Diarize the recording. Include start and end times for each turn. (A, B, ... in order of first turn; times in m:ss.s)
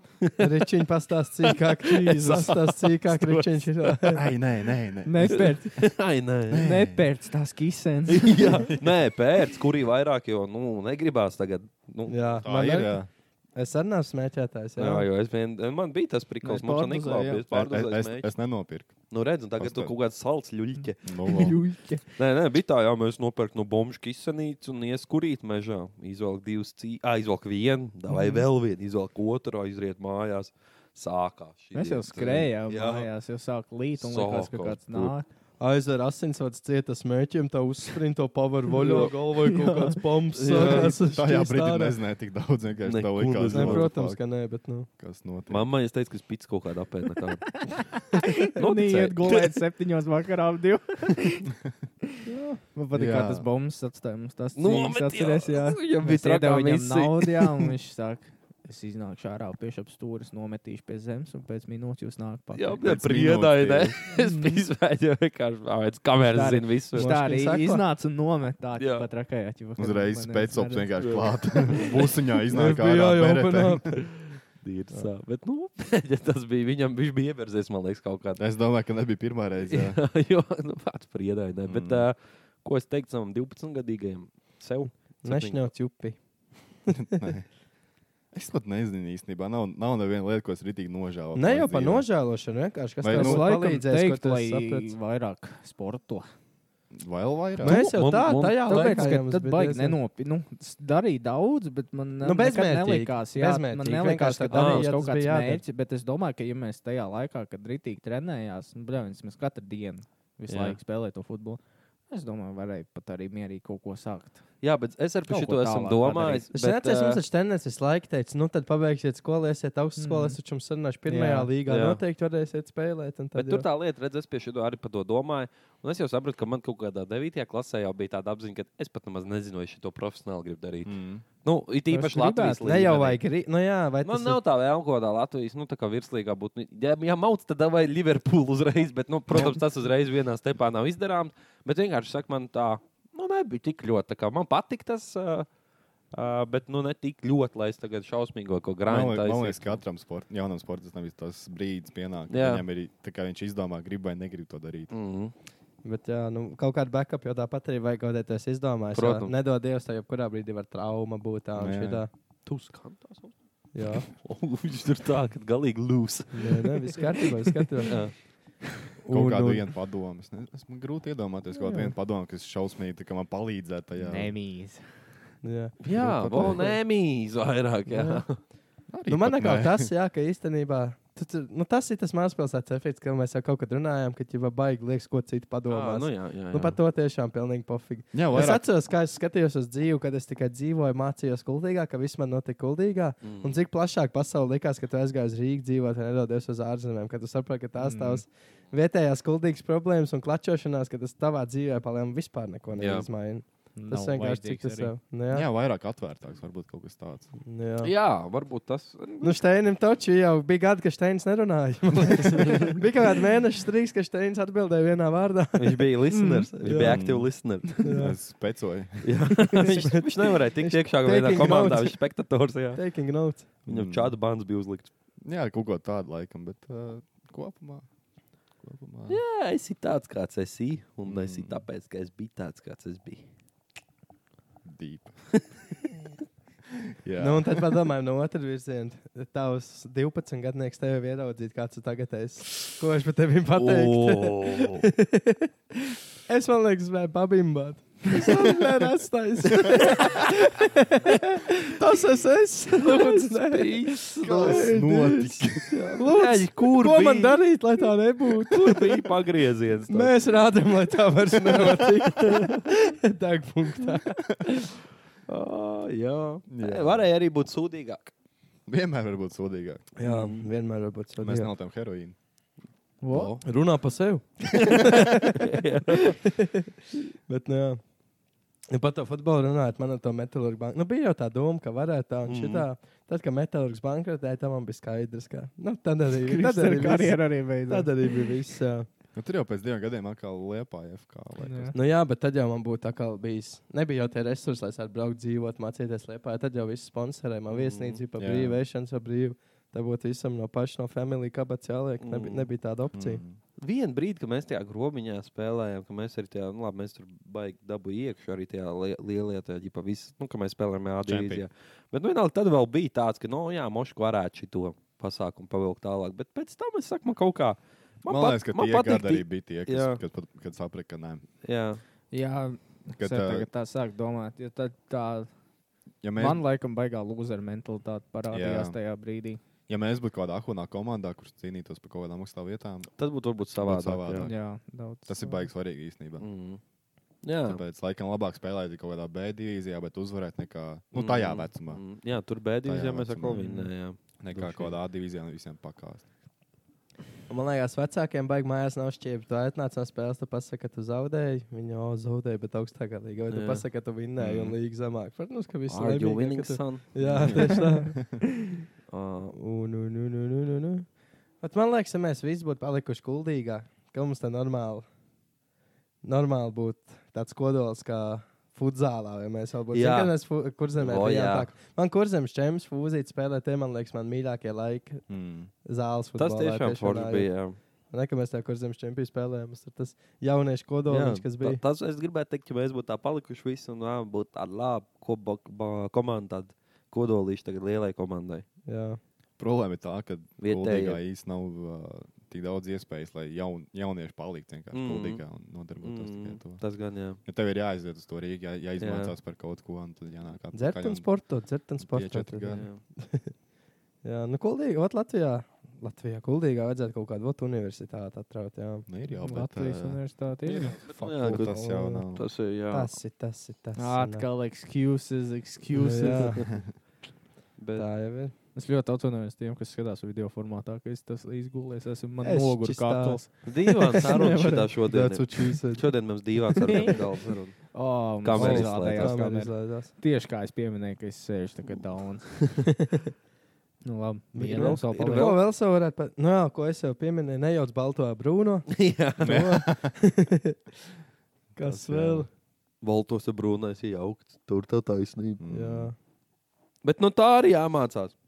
0:00.2-0:00.5 A
0:00.4-0:04.2 B
0:01.9-0:04.1 A
0:04.1-0:05.6 C
0:05.0-0:05.9 D
0:05.3-0:06.7 A
0:06.5-0:07.1 C
0:06.6-0:08.6 D
0:08.1-0:12.4 A
0:08.7-0:09.0 C
0:12.1-0:13.0 B
0:12.4-0:13.1 C
0:13.5-0:15.1 B
0:14.8-0:18.3 A
0:16.4-0:17.4 D
0:17.5-0:19.0 C
0:19.1-0:21.1 A
0:19.6-0:19.9 C
0:21.0-0:21.6 C
0:21.2-0:22.0 D
0:22.2-0:33.1 A
0:28.1-0:28.4 D
0:31.7-0:35.2 D
0:34.0-0:35.1 A
0:35.6-0:42.0 B
0:38.8-0:39.1 A
0:39.5-0:39.9 D
0:40.3-0:41.0 A
0:40.8-0:44.2 C
0:42.8-0:43.9 A
0:43.5-0:44.9 B
0:45.0-0:45.7 C
0:45.5-0:47.6 A
0:47.7-0:51.4 D
0:48.4-0:49.5 A
0:52.2-0:52.6 B
0:52.7-1:02.8 D
0:52.9-0:53.5 C
0:54.6-0:57.7 A
1:02.5-1:07.1 A
1:02.8-1:04.0 C
1:04.2-1:04.6 D
1:06.2-1:10.9 D
1:06.9-1:07.8 B
1:08.8-1:09.0 A
1:09.8-1:14.0 C
1:11.0-1:11.8 A
1:12.5-1:14.0 B
1:14.6-1:18.4 A
1:18.4-1:20.0 C
1:19.7-1:25.7 A
1:21.6-1:22.1 C
1:25.2-1:26.2 B
1:26.9-1:27.5 C
1:28.3-1:32.1 C
1:31.3-1:34.9 B
1:33.0-1:33.4 C
1:33.1-1:36.3 D
1:36.9-1:37.8 C
1:37.6-1:40.0 B
1:37.6-1:39.1 A
1:38.7-1:54.5 D
1:42.2-1:45.6 B
1:44.5-1:44.9 A
1:50.5-1:50.8 A
1:54.6-1:57.2 A
1:55.3-1:56.4 D
1:56.5-2:03.6 B
2:00.0-2:00.4 D
2:01.0-2:01.5 D
2:01.6-2:02.0 A
2:03.4-2:13.2 A
2:10.8-2:11.2 C
2:11.9-2:12.8 D
2:12.6-2:14.4 B
2:14.0-2:25.5 A
2:19.3-2:19.6 C
2:26.1-2:29.8 A
2:28.8-2:34.9 C
2:32.3-2:32.6 A
2:34.9-2:35.3 A
2:35.8-2:42.1 B
2:38.9-2:39.3 A
2:41.6-2:42.0 C
2:42.4-2:43.4 A
2:43.7-2:44.1 B
2:44.0-2:48.2 A
2:46.3-2:48.0 B
2:49.0-2:49.6 B
2:49.1-2:54.3 C
2:51.5-2:51.9 B
2:54.0-2:54.8 D
2:55.4-2:56.8 B
2:55.8-2:58.4 A
2:55.9-2:56.7 C
2:57.9-2:58.2 B
2:58.9-2:59.9 C
2:59.1-3:25.5 B
3:05.7-3:06.8 A
3:08.1-3:08.7 C
3:13.2-3:13.6 A
3:17.8-3:18.2 D
3:22.8-3:23.1 A
3:23.8-3:24.9 D
3:25.3-3:27.3 C
3:27.4-3:27.9 B
3:27.8-3:29.4 A
3:29.2-3:35.9 B
3:32.4-3:32.8 A
3:35.6-3:37.9 A
3:36.1-3:36.5 D
3:36.6-3:37.0 B
3:36.7-3:39.1 C
3:37.8-3:38.1 B
3:39.0-3:42.8 A
3:39.5-3:42.0 B
3:42.7-3:43.5 B
3:43.6-3:44.9 A
3:43.7-3:44.2 C
3:45.2-3:47.8 C
3:48.6-3:49.2 C
3:49.1-3:53.3 A
3:51.0-3:51.6 C
3:54.6-3:55.2 C
3:56.9-3:57.6 C
3:57.2-4:05.5 B
4:03.5-4:04.8 A
4:06.3-4:19.1 B
4:09.5-4:10.3 A
4:12.8-4:14.7 A
4:14.2-4:15.8 C
4:15.7-4:17.4 A
4:18.4-4:20.1 A
4:19.9-4:24.2 B
4:25.3-4:28.1 A
4:26.5-4:27.1 C
4:28.7-4:29.9 C
4:30.0-4:31.5 B
4:30.0-4:30.4 A
4:31.2-4:32.2 C
4:33.0-4:33.4 D
4:33.1-4:33.4 A
4:33.4-4:36.6 B
4:34.5-4:36.2 A
4:37.3-4:37.8 B
4:38.7-4:48.9 B
4:42.3-4:42.7 A
4:46.2-4:48.3 D
4:49.1-4:51.8 C
4:51.4-4:51.7 D
4:51.7-5:03.2 B
4:57.5-4:58.0 A
4:58.2-4:58.6 C
5:02.0-5:02.5 A
5:02.9-5:03.4 C
5:03.6-5:20.0 A
5:11.0-5:11.4 C
5:18.0-5:21.2 C
5:21.4-5:21.8 A
5:22.1-5:25.3 D
5:23.0-5:23.5 C
5:26.0-5:26.4 C
5:26.2-5:29.4 D
5:28.3-5:28.8 C
5:29.7-5:32.9 C
5:33.0-5:34.3 A
5:33.5-5:34.4 C
5:34.2-5:35.5 D
5:35.0-5:36.2 C
5:36.2-5:36.6 A
5:37.2-5:37.6 A
5:37.4-5:41.8 C
5:40.9-5:44.7 A
5:42.6-5:43.4 C
5:43.3-5:43.7 D
5:44.2-5:46.0 C
5:47.3-5:58.0 B
5:53.3-5:53.6 A
5:54.2-5:54.6 C
5:55.7-5:57.7 A
5:57.0-5:58.0 C
5:58.9-5:59.3 A
5:59.3-6:00.8 B
6:01.4-6:04.8 B
6:06.0-6:15.0 B
6:09.7-6:10.1 A
6:10.8-6:11.5 A
6:15.1-6:15.5 C
6:15.6-6:17.3 B
6:16.2-6:17.6 A
6:17.9-6:21.6 B
6:20.9-6:28.4 A
6:28.6-6:29.0 B
6:29.4-6:36.6 C
6:30.4-6:31.0 A
6:34.7-6:35.2 A
6:35.8-6:37.2 A
6:37.2-6:41.1 C
6:38.8-6:39.1 A
6:40.5-6:43.3 B
6:41.8-6:42.7 C
6:42.5-6:42.8 A
6:44.0-6:48.8 B
6:48.9-6:50.0 C
6:49.2-6:50.8 D
6:50.4-6:51.5 A
6:50.8-6:52.2 C
6:51.0-6:52.1 B
6:52.1-6:52.9 A
6:52.7-6:54.2 B
6:53.8-6:56.4 D
6:55.7-6:56.5 B
6:57.6-6:57.8 A
6:57.8-6:58.3 B
6:58.5-7:04.8 D
7:02.2-7:03.2 B
7:03.4-7:07.7 A
7:04.9-7:05.9 B
7:06.5-7:07.0 B
7:06.7-7:07.0 D
7:07.7-7:12.6 D
7:08.2-7:09.5 A
7:08.4-7:09.9 B
7:13.8-7:15.3 D
7:14.3-7:20.6 B
7:14.9-7:15.4 A
7:18.7-7:19.4 A
7:19.2-7:20.0 C
7:21.6-7:22.3 B
7:21.6-7:22.2 A
7:22.8-7:25.4 A
7:25.4-7:25.9 C
7:25.5-7:25.9 B
7:26.8-7:28.1 A